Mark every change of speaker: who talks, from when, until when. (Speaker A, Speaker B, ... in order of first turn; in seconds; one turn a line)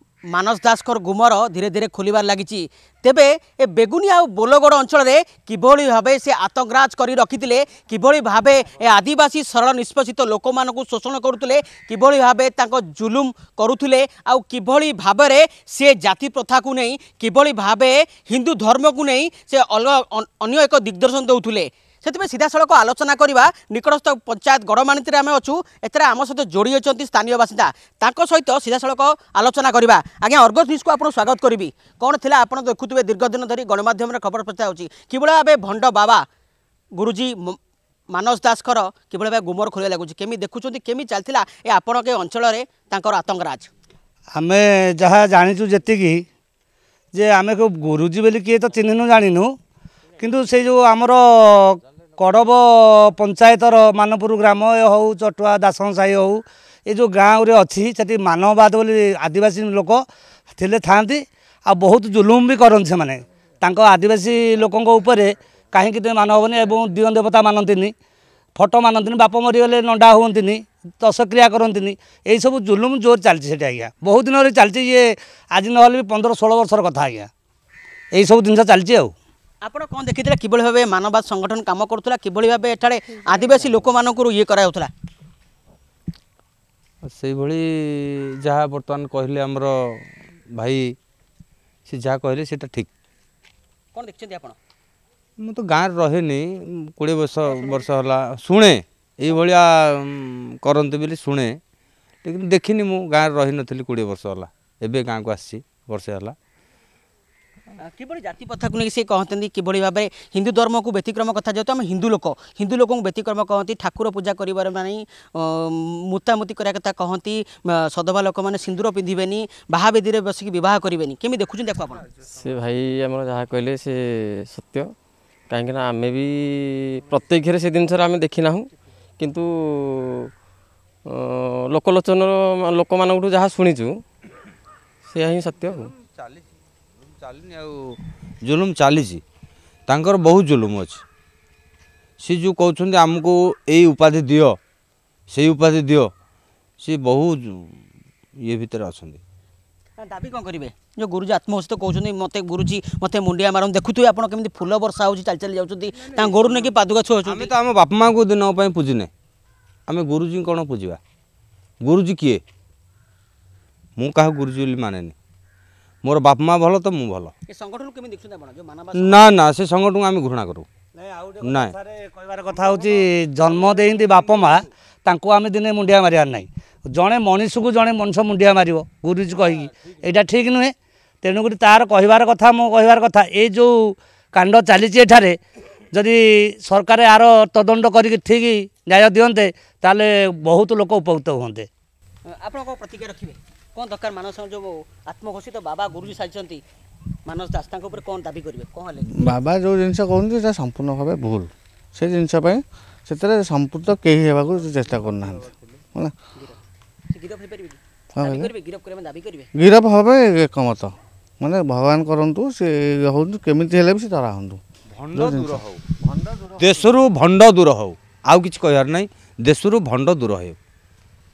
Speaker A: 0.3-36.2
Speaker A: 37.0-37.6
Speaker A: 38.1-43.7
Speaker B: 44.4-46.2
Speaker B: 47.1-49.5
Speaker B: 50.2-60.0
Speaker B: 60.5-67.9
Speaker B: 68.6-77.3
Speaker B: 78.1-79.1
Speaker A: 79.6-84.9
Speaker C: 87.0-91.0
Speaker C: 91.9-92.9
Speaker A: 93.9-94.6
Speaker C: 95.4-101.6
Speaker C: 102.2-106.4
Speaker A: 107.8-122.0
Speaker D: 122.3-124.9
Speaker D: 125.5-130.3
Speaker D: 131.1-134.0
Speaker D: 135.1-135.9
Speaker C: 136.0-136.4
Speaker C: 137.1-139.2
Speaker C: 139.9-141.0
Speaker C: 142.2-144.6
Speaker C: 145.3-146.1
Speaker C: 146.8-147.8
Speaker C: 148.4-149.2
Speaker A: 150.0-157.5
Speaker C: 156.2-156.6
Speaker C: 157.2-159.1
Speaker C: 159.9-161.0
Speaker C: 161.8-162.4
Speaker C: 164.0-165.2
Speaker C: 166.0-167.3
Speaker A: 167.5-169.3
Speaker C: 168.9-170.7
Speaker B: 171.0-185.4
Speaker C: 171.4-171.8
Speaker B: 185.9-191.7
Speaker A: 192.3-196.6
Speaker A: 197.3-199.2
Speaker E: 199.1-206.1
Speaker A: 206.4-209.5
Speaker E: 208.1-208.5
Speaker E: 209.6-214.6
Speaker C: 214.9-215.8
Speaker E: 215.1-215.6
Speaker C: 216.6-220.6